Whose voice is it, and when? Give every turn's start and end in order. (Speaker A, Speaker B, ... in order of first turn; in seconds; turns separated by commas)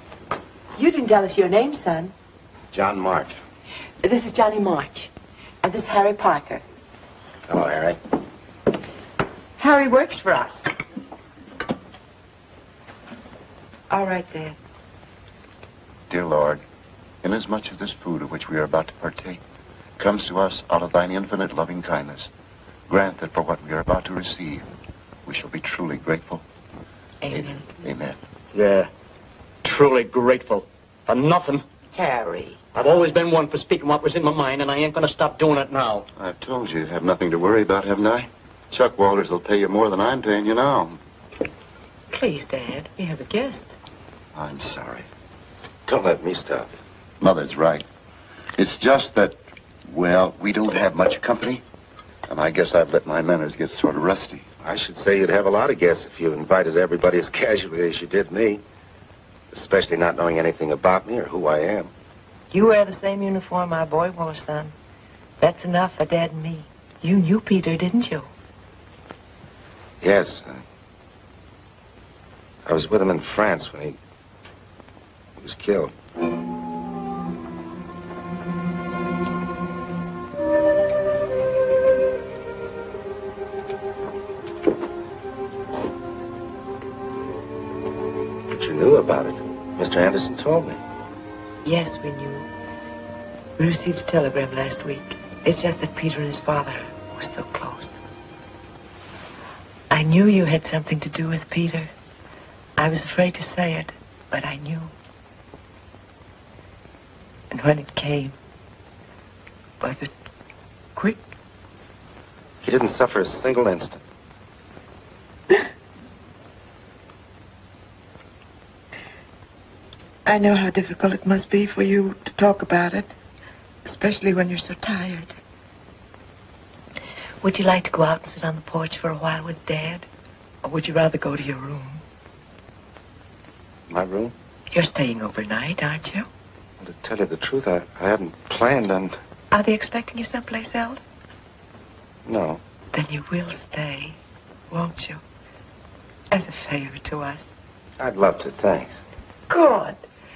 Speaker A: 0.8-2.1, Speaker B: 2.7-3.4, Speaker A: 4.0-5.1, Speaker A: 5.6-6.6, Speaker B: 7.5-8.0, Speaker A: 9.6-10.7, Speaker A: 13.9-14.6, Speaker C: 16.1-16.6, Speaker C: 17.2-19.4, Speaker C: 20.0-22.3, Speaker C: 22.9-24.6, Speaker C: 25.3-26.4, Speaker A: 27.2-27.7, Speaker C: 27.3-28.2, Speaker D: 28.5-28.9, Speaker D: 29.6-31.6, Speaker A: 31.9-32.6, Speaker D: 32.7-36.0, Speaker C: 36.2-41.0, Speaker A: 42.1-43.7, Speaker C: 44.3-45.0, Speaker B: 45.9-46.8, Speaker C: 47.2-47.9, Speaker C: 48.6-49.4, Speaker C: 49.9-51.6, Speaker C: 52.3-54.5, Speaker B: 54.6-58.6, Speaker B: 59.5-61.9, Speaker A: 62.5-64.7, Speaker A: 65.4-68.3, Speaker B: 70.0-70.6, Speaker B: 72.6-74.0, Speaker B: 75.4-75.9, Speaker B: 88.5-90.8, Speaker A: 91.6-92.5, Speaker A: 93.6-98.0, Speaker A: 99.9-101.9, Speaker A: 102.8-104.9, Speaker A: 107.5-108.3, Speaker A: 109.8-110.1, Speaker A: 110.9-111.2, Speaker B: 112.6-114.0, Speaker A: 120.2-123.1, Speaker A: 123.8-125.4, Speaker A: 127.4-130.1, Speaker A: 130.6-132.0, Speaker B: 133.9-134.3, Speaker A: 134.7-136.3, Speaker B: 136.8-139.2, Speaker A: 139.5-141.0, Speaker B: 142.3-142.6, Speaker A: 142.9-144.2, Speaker A: 144.7-145.2, Speaker A: 146.3-147.5, Speaker B: 148.0-149.0, Speaker A: 149.5-150.0